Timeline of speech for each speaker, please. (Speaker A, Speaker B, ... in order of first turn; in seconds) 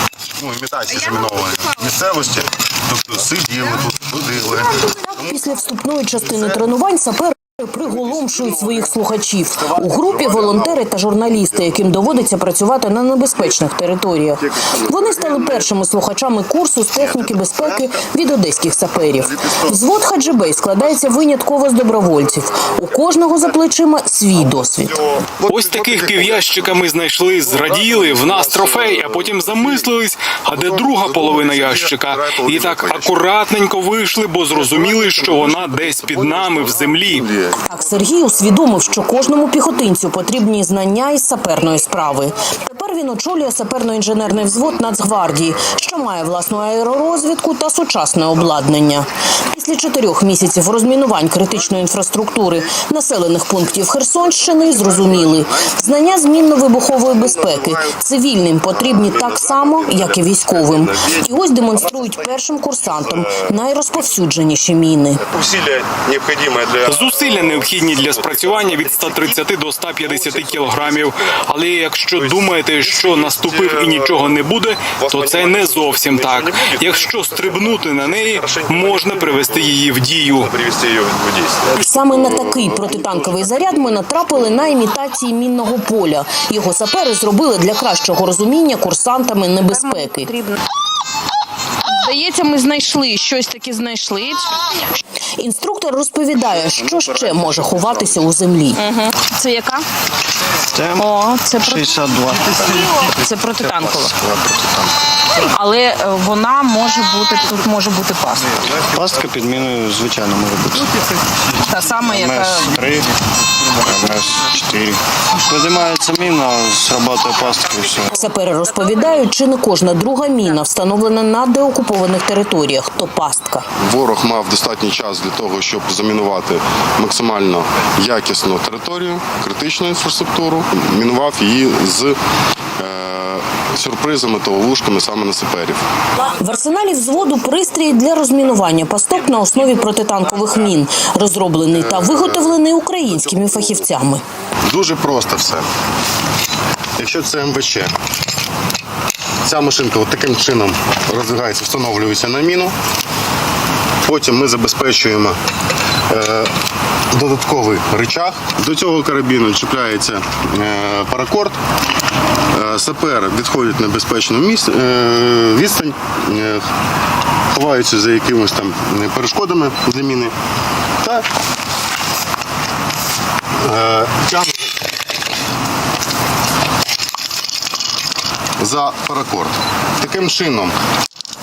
Speaker A: 0.4-4.9, 9.8-10.8, 14.5-15.7, 17.0-17.9, 25.2-26.8, 27.4-29.9, 30.5-33.2, 34.5-37.7, 57.5-57.7, 58.9-60.8, 65.3-69.4, 70.0-71.2, 72.2-79.8, 80.4-84.3, 123.8-132.2, 132.8-135.8, 141.7-142.6, 143.1-143.8, 144.6-145.7, 147.0-147.9, 149.4-152.7, 154.0-155.4, 156.1-156.5, 157.1-161.6, 162.5-166.6, 167.5-170.3, 173.6-174.7, 178.6-180.7
Speaker B: 5.0-25.0, 37.6-65.2, 81.8-90.3, 95.4-98.8, 118.1-123.7, 136.2-144.2
Speaker C: 25.4-37.2, 66.8-80.5
Speaker D: 89.7-90.6, 91.9-94.6, 98.8-99.8, 101.0-101.9, 102.8-104.1, 105.4-108.5, 111.7-112.8
Speaker E: 100.7-103.0, 103.9-105.0, 108.9-110.9, 112.0-113.1, 113.8-118.1